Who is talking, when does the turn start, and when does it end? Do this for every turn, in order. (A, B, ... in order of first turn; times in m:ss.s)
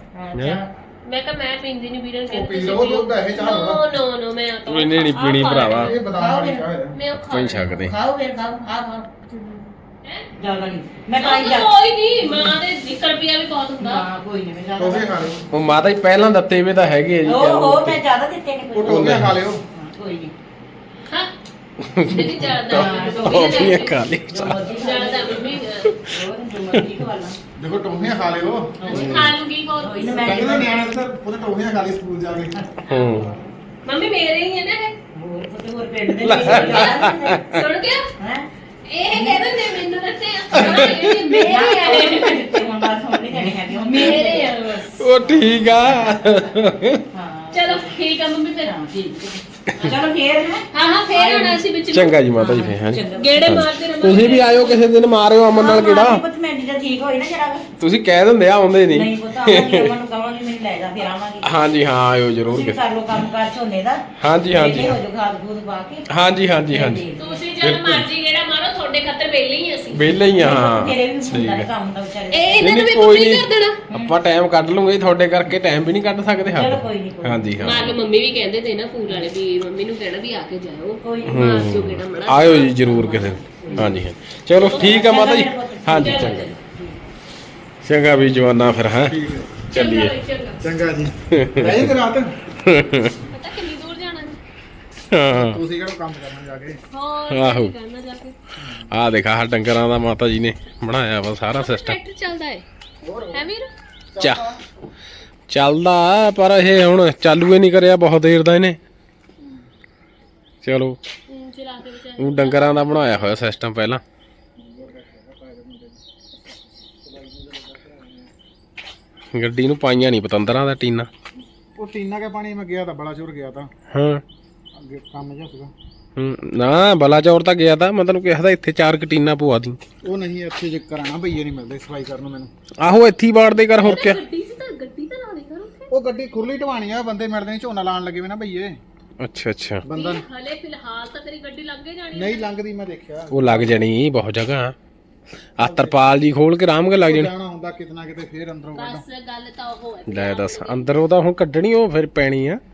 0:00.1-0:00.7 A
0:00.3-0:00.6 B
0:01.0-0:06.0 C
0:02.3-0:03.9 D
0:04.7-0:05.9 B
0:05.8-0:06.9 D
0:06.1-0:06.7 A
0:06.9-0:07.9 C
0:07.1-0:07.9 B
0:07.8-0:09.1 A
0:09.3-0:10.3 C
0:10.4-0:12.6 A
0:11.2-0:14.0 C
0:13.8-0:15.3 A
0:14.8-0:15.4 D
0:15.5-0:18.0 B
0:17.2-0:19.2 A
0:18.7-0:19.6 D
0:18.8-0:19.4 B
0:19.7-0:20.3 A
0:21.8-0:24.6 B
0:22.0-0:24.0 C
0:22.7-0:27.4 A
0:24.7-0:25.9 C
0:25.8-0:26.1 B
0:27.6-0:28.9 D
0:28.8-0:31.0 A
0:28.9-0:30.4 C
0:29.0-0:29.3 B
0:30.2-0:32.7 D
0:32.9-0:34.9 C
0:32.9-0:33.3 B
0:35.1-0:37.4 A
0:36.2-0:37.6 B
0:36.5-0:38.1 C
0:38.2-0:38.5 A
0:38.8-0:42.6 C
0:39.1-0:39.7 A
0:40.5-0:44.6 A
0:40.6-0:41.4 B
0:43.9-0:45.0 C
0:45.0-0:47.0 B
0:45.2-0:46.5 A
0:47.1-0:48.0 A
0:47.5-0:48.7 C
0:48.6-0:51.6 A
0:50.7-0:52.2 C
0:51.9-0:56.2 B
0:52.3-0:53.6 A
0:53.1-0:54.8 C
0:55.5-0:57.7 A
0:57.8-0:59.9 B
0:58.9-1:01.5 A
1:01.4-1:02.8 B
1:02.5-1:06.1 A
1:04.2-1:05.0 B
1:06.1-1:07.1 B
1:06.7-1:07.4 A
1:07.2-1:10.1 C
1:07.6-1:08.1 B
1:09.9-1:11.7 B
1:10.3-1:12.7 A
1:12.3-1:13.8 C
1:12.6-1:17.9 B
1:16.4-1:17.9 A
1:17.6-1:23.3 C
1:21.0-1:21.7 A
1:21.2-1:26.6 B
1:22.8-1:24.0 A
1:24.6-1:27.0 A
1:24.6-1:25.2 C
1:25.9-1:26.5 C
1:27.8-1:30.1 B
1:29.0-1:29.5 D
1:29.7-1:30.6 C
1:30.6-1:32.3 D
1:31.3-1:31.9 B
1:32.6-1:33.2 B
1:33.3-1:34.4 C
1:35.1-1:35.6 B
1:35.3-1:36.8 D
1:36.9-1:38.4 C
1:37.3-1:37.7 B
1:38.6-1:38.9 D
1:38.9-1:42.0 B
1:41.6-1:42.6 C
1:43.0-1:43.5 D
1:43.3-1:43.7 C
1:44.1-1:44.6 D
1:44.2-1:44.4 B
1:45.5-1:48.8 B
1:49.4-1:49.6 D
1:50.6-1:51.0 B
1:51.3-1:53.2 C
1:52.2-1:54.0 B
1:54.6-1:56.0 D
1:57.0-1:58.3 D
1:59.3-2:01.1 B
2:01.8-2:03.7 D
2:03.9-2:04.2 B
2:04.7-2:05.7 D
2:06.2-2:09.8 B
2:10.0-2:12.5 D
2:12.8-2:14.2 B
2:13.8-2:15.9 C
2:15.9-2:18.8 D
2:19.2-2:19.8 B
2:19.8-2:20.2 D
2:19.9-2:22.5 C
2:22.1-2:23.8 D
2:23.3-2:24.7 B
2:25.6-2:27.3 B
2:25.6-2:26.0 D
2:27.0-2:29.0 D
2:28.7-2:30.9 C
2:30.1-2:32.6 B